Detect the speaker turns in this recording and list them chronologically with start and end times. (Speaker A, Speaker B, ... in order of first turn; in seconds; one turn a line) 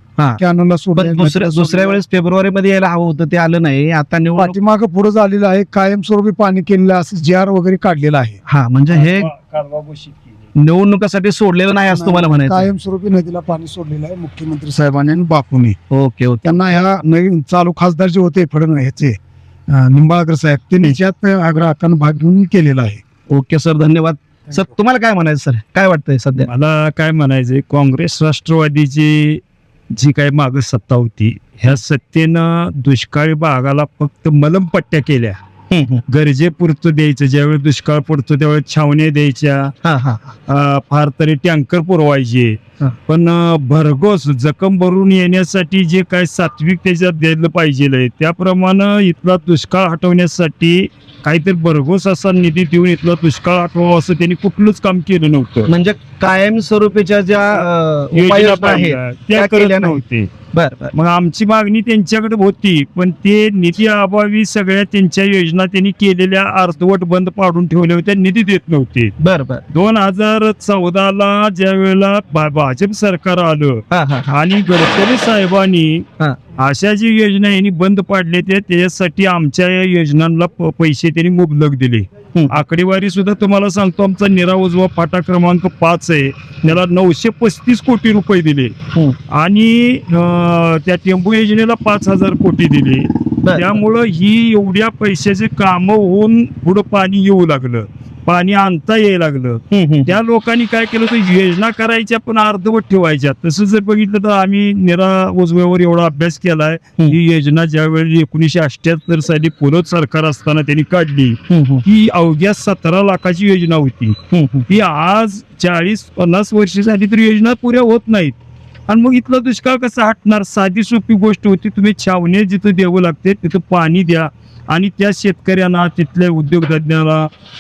Speaker A: 0.4-2.0
Speaker B: 1.0-4.6
Speaker A: 4.3-8.4
Speaker B: 8.5-9.3
Speaker C: 8.9-10.4
Speaker B: 10.6-12.7
Speaker A: 11.9-15.8
Speaker B: 15.9-16.6
Speaker A: 16.4-19.2
Speaker A: 19.7-23.0
Speaker B: 23.3-26.5
Speaker C: 26.5-35.4
Speaker B: 35.7-36.0
Speaker C: 36.1-39.7
Speaker B: 39.9-40.3
Speaker C: 40.5-55.7
Speaker B: 55.7-60.9
Speaker C: 58.1-60.4
Speaker C: 60.9-69.1
Speaker B: 69.2-69.6
Speaker C: 69.7-88.8
Speaker B: 73.9-74.3
Speaker C: 89.3-114.2
Speaker B: 93.4-93.8
Speaker B: 99.7-100.2
Speaker B: 111.5-111.8
Speaker B: 114.3-114.7
Speaker C: 114.7-118.3
Speaker C: 118.9-127.3